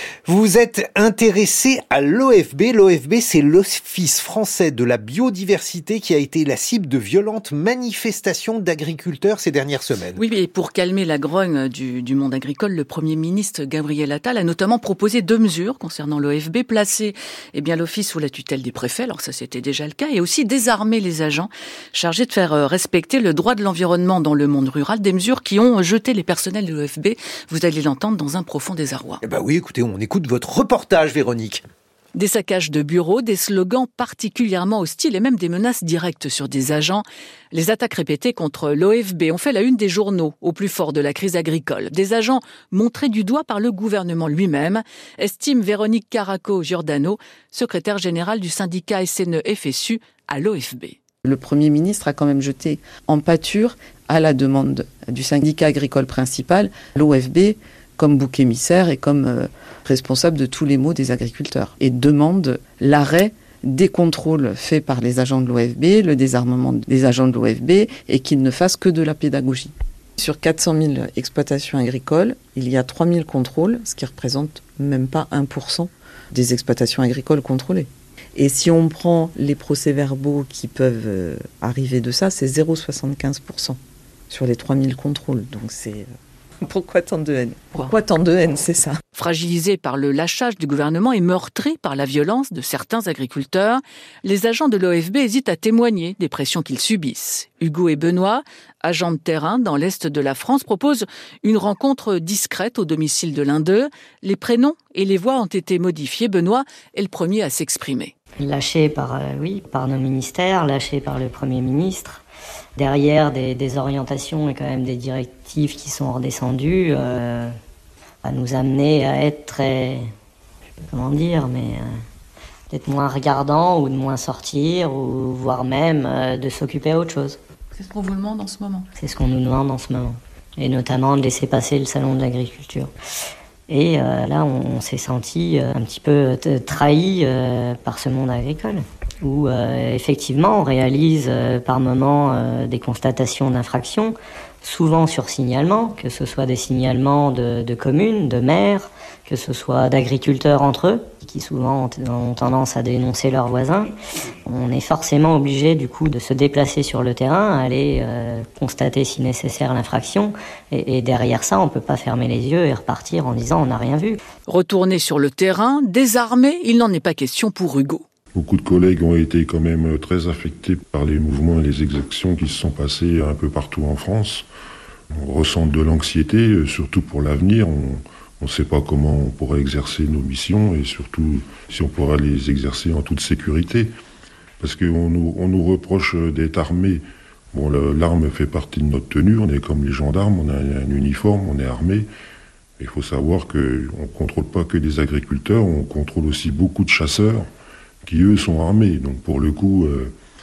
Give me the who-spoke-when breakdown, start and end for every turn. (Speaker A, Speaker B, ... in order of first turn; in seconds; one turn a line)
Speaker A: 0.2-10.2
Speaker B: 10.1-29.2
Speaker A: 29.2-31.6
Speaker B: 32.1-51.0
Speaker C: 51.2-83.8
Speaker C: 84.3-86.1
Speaker C: 86.6-89.0
Speaker B: 89.1-108.1
Speaker D: 108.4-112.2
Speaker D: 112.8-117.5
Speaker D: 118.2-120.1
Speaker D: 120.9-121.9
Speaker D: 122.7-127.4
Speaker B: 127.7-128.8
Speaker D: 129.0-132.9
Speaker D: 133.7-153.9
Speaker D: 154.4-164.2
Speaker B: 164.5-168.0
Speaker E: 168.3-174.4
Speaker E: 175.2-183.9
Speaker E: 184.6-192.1
Speaker E: 192.8-197.5
Speaker E: 198.0-200.1